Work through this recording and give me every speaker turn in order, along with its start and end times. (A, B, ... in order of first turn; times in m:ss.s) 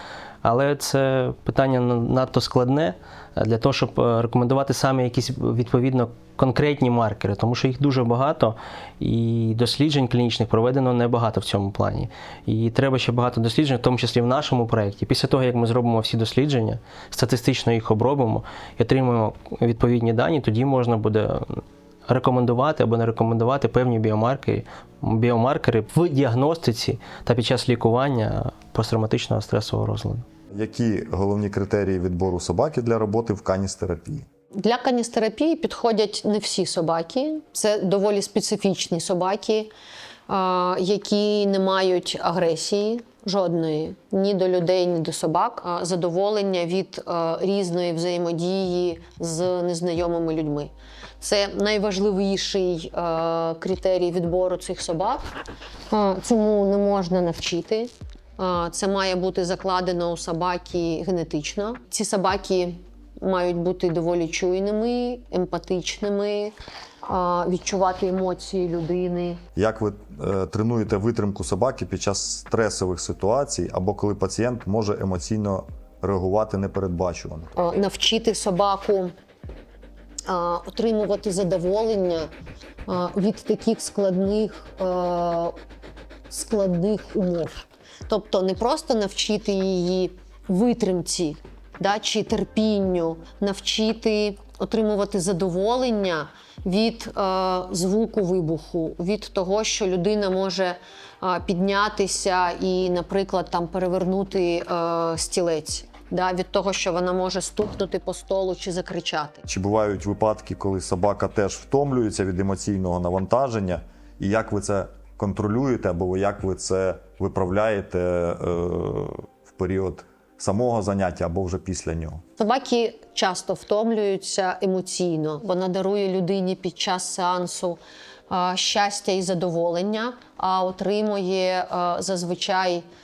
0:00.4-0:30.2 A
0:30.5-0:34.2 B
0:34.5-0:39.7 C
0:40.3-0:55.2 C
0:55.9-1:06.5 C
1:07.1-1:09.4 C
1:09.6-1:17.5 B
1:17.6-1:19.1 C
1:20.3-1:22.3 C
1:22.9-1:25.5 C
1:26.3-1:49.4 C
1:49.5-2:02.2 B
2:02.4-2:07.8 C
2:08.3-2:12.8 C